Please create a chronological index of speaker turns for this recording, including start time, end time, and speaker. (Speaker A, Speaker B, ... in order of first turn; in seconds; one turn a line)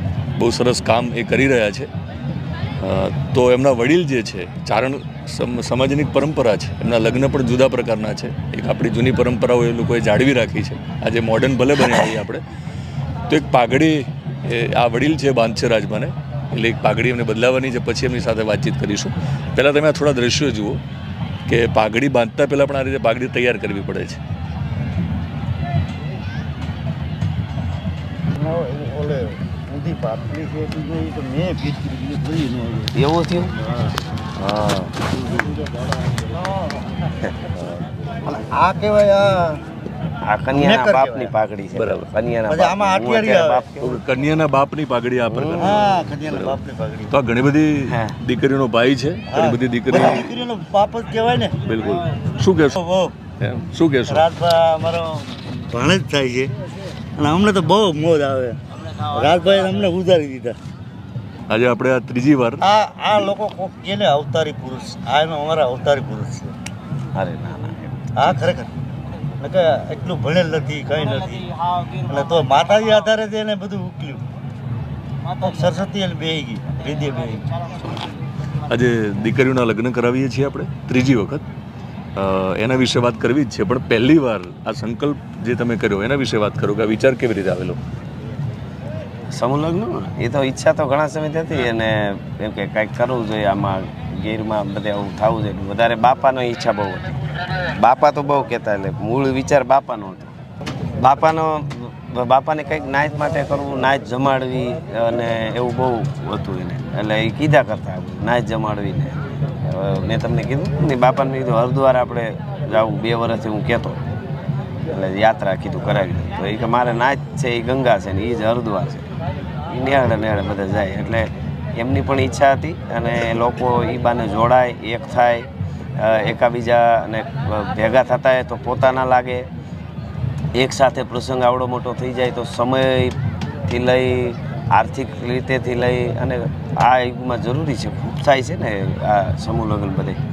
Speaker A: 0.4-1.9
Speaker A: 2.8-12.4
Speaker A: 13.3-20.8
Speaker A: 21.5-24.2
Speaker B: 28.3-32.9
Speaker C: 33.0-33.5
Speaker C: 34.4-34.8
Speaker A: 34.5-34.9
Speaker B: 35.3-35.6
Speaker B: 38.3-39.6
Speaker C: 40.2-44.0
Speaker B: 40.5-41.3
Speaker A: 41.8-42.0
Speaker B: 42.5-43.7
Speaker A: 43.8-46.6
Speaker C: 45.3-46.1
Speaker B: 45.6-47.1
Speaker A: 47.1-50.3
Speaker C: 47.9-48.1
Speaker B: 49.3-51.5
Speaker A: 51.7-52.8
Speaker B: 52.7-53.1
Speaker A: 53.4-54.3
Speaker B: 54.1-56.5
Speaker B: 57.2-60.6
Speaker A: 61.5-62.6
Speaker B: 62.6-66.5
Speaker C: 67.2-68.4
Speaker B: 68.2-68.7
Speaker B: 69.4-71.5
Speaker B: 72.0-74.2
Speaker B: 75.4-77.4
Speaker A: 78.7-81.4
Speaker A: 82.2-87.8
Speaker C: 89.3-97.1
Speaker C: 97.8-100.3
Speaker C: 101.0-114.0
Speaker C: 114.9-119.1
Speaker C: 119.7-129.5
Speaker C: 130.6-133.2
Speaker C: 133.7-140.2